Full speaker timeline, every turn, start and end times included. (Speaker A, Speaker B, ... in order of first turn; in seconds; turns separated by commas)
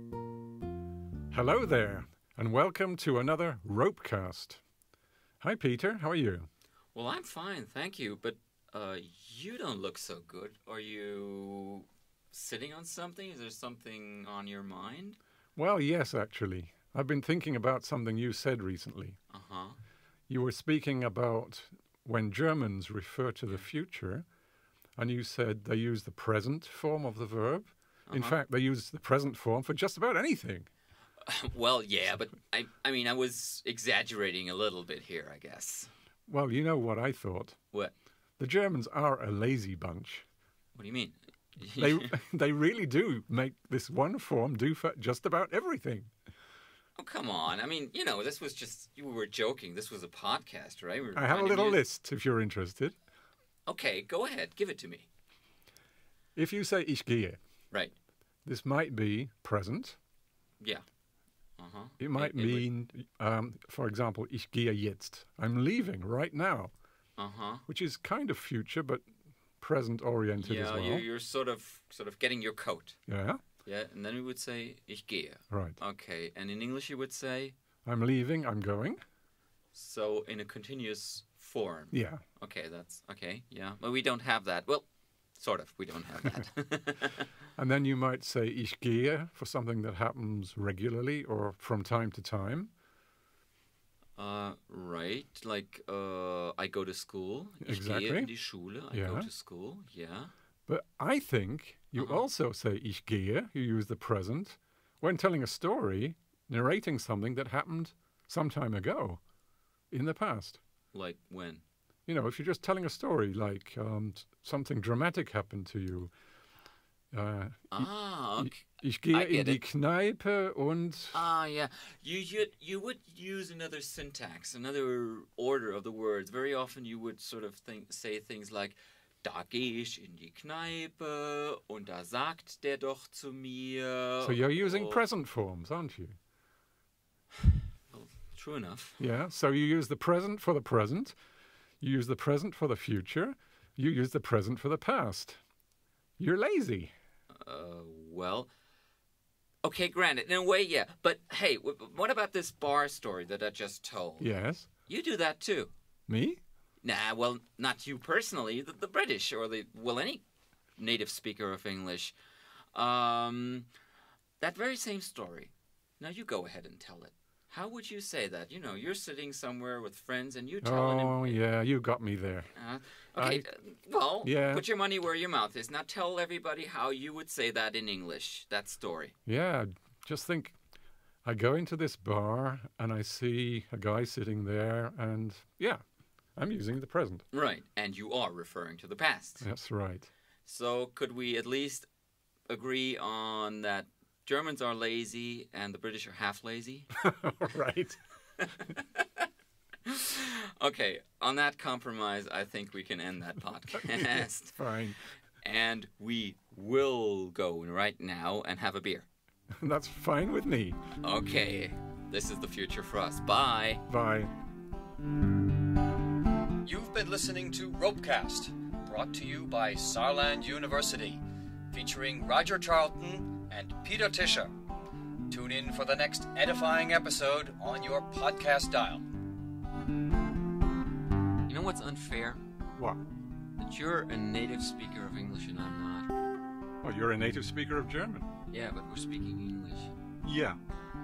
Speaker A: 1.3-4.6, Speaker A: 5.4-6.5, Speaker B: 6.9-15.2, Speaker A: 15.6-19.2, Speaker B: 19.3-19.8, Speaker A: 20.3-24.2, Speaker A: 25.0-30.7, Speaker B: 28.1-28.4, Speaker B: 31.2-35.9, Speaker A: 36.3-37.6, Speaker A: 38.4-40.2, Speaker B: 40.7-42.1, Speaker A: 41.7-46.1, Speaker B: 47.0-51.8, Speaker A: 51.1-52.9, Speaker B: 53.7-55.1, Speaker A: 56.4-57.4, Speaker A: 58.4-60.0, Speaker B: 60.6-60.8, Speaker B: 61.6-62.7, Speaker A: 62.0-66.7, Speaker B: 67.2-67.6, Speaker A: 67.7-69.0, Speaker A: 69.6-71.0, Speaker B: 70.4-73.0, Speaker A: 73.1-73.4, Speaker B: 73.6-77.5, Speaker A: 75.5-75.8, Speaker A: 77.8-79.0, Speaker B: 79.7-84.8, Speaker A: 81.9-82.2, Speaker B: 85.3-87.3, Speaker A: 87.6-92.7, Speaker B: 94.2-100.3, Speaker A: 97.6-98.3, Speaker A: 98.9-99.3, Speaker A: 100.7-109.2, Speaker B: 102.0-102.2, Speaker A: 109.9-110.6, Speaker B: 110.9-111.6, Speaker A: 112.1-116.1, Speaker A: 117.1-121.2, Speaker B: 117.7-119.6, Speaker B: 121.1-135.0, Speaker A: 134.2-136.2, Speaker B: 137.9-139.0, Speaker A: 139.0-141.1, Speaker A: 141.8-145.4, Speaker A: 146.2-146.9, Speaker B: 147.3-148.5, Speaker B: 149.6-154.3, Speaker A: 154.2-154.7, Speaker B: 154.9-155.7, Speaker A: 156.1-156.4, Speaker B: 156.8-160.2, Speaker B: 160.8-162.1, Speaker B: 162.7-163.7, Speaker B: 164.4-171.4, Speaker A: 170.6-172.5, Speaker B: 172.6-179.1, Speaker A: 173.2-173.5, Speaker A: 174.2-174.6, Speaker A: 179.3-180.5, Speaker A: 181.2-185.8, Speaker A: 186.3-187.2, Speaker B: 187.3-189.4, Speaker A: 189.4-190.1, Speaker B: 190.4-191.9, Speaker B: 192.5-196.9, Speaker A: 197.0-198.0, Speaker B: 198.4-199.2, Speaker B: 199.8-204.6, Speaker A: 203.8-205.0, Speaker B: 205.4-209.1, Speaker A: 209.6-210.8, Speaker B: 211.0-213.8, Speaker A: 213.9-214.3, Speaker C: 216.6-224.5, Speaker C: 225.3-229.1, Speaker B: 231.5-232.4, Speaker A: 232.8-233.0, Speaker B: 233.6-236.1, Speaker A: 236.8-238.3, Speaker B: 238.5-239.9, Speaker A: 240.2-240.6